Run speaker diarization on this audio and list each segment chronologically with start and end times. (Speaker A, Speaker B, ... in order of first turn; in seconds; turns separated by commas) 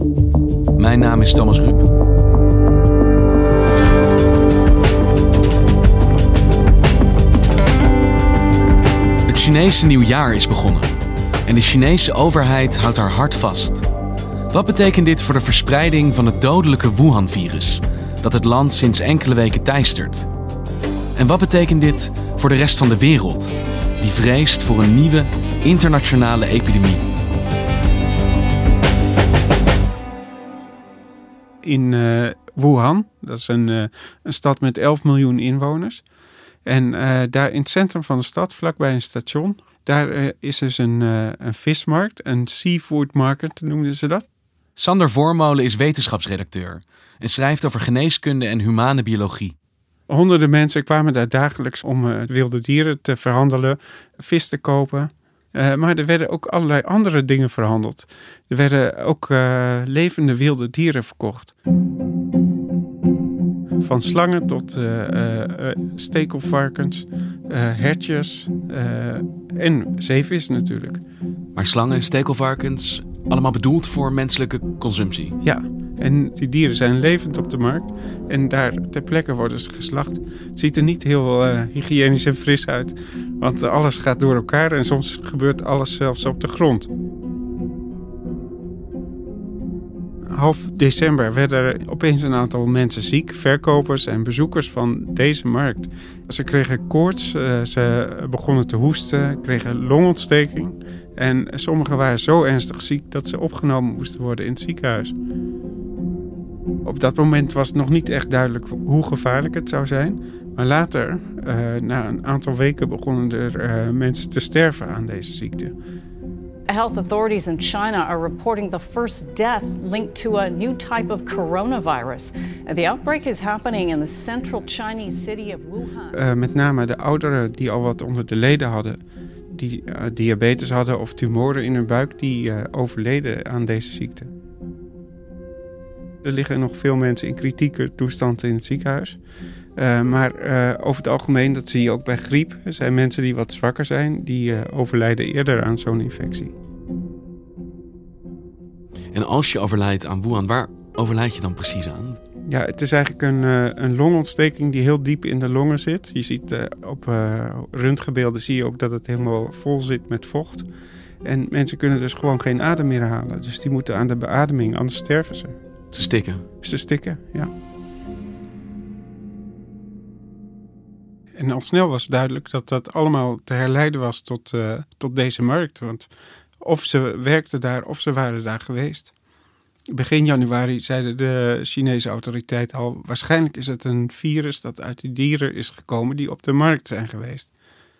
Speaker A: 0.8-1.9, Speaker A: 9.2-10.9, Speaker A: 11.5-13.8, Speaker A: 14.5-20.3, Speaker A: 21.1-27.0, Speaker B: 31.6-36.0, Speaker B: 36.6-44.2, Speaker A: 44.8-49.5, Speaker B: 50.1-61.5, Speaker B: 63.8-71.0, Speaker A: 71.5-75.4, Speaker B: 75.4-86.9, Speaker B: 90.3-105.1, Speaker B: 106.8-115.7, Speaker C: 116.7-126.1, Speaker B: 126.1-129.0, Speaker B: 129.5-134.3, Speaker B: 136.2-139.2, Speaker B: 139.8-146.5, Speaker A: 149.1-152.2, Speaker B: 152.5-160.7, Speaker B: 161.2-165.6, Speaker A: 165.9-166.4, Speaker B: 166.6-167.5, Speaker B: 171.4-176.1, Speaker B: 176.6-179.1, Speaker B: 179.9-187.5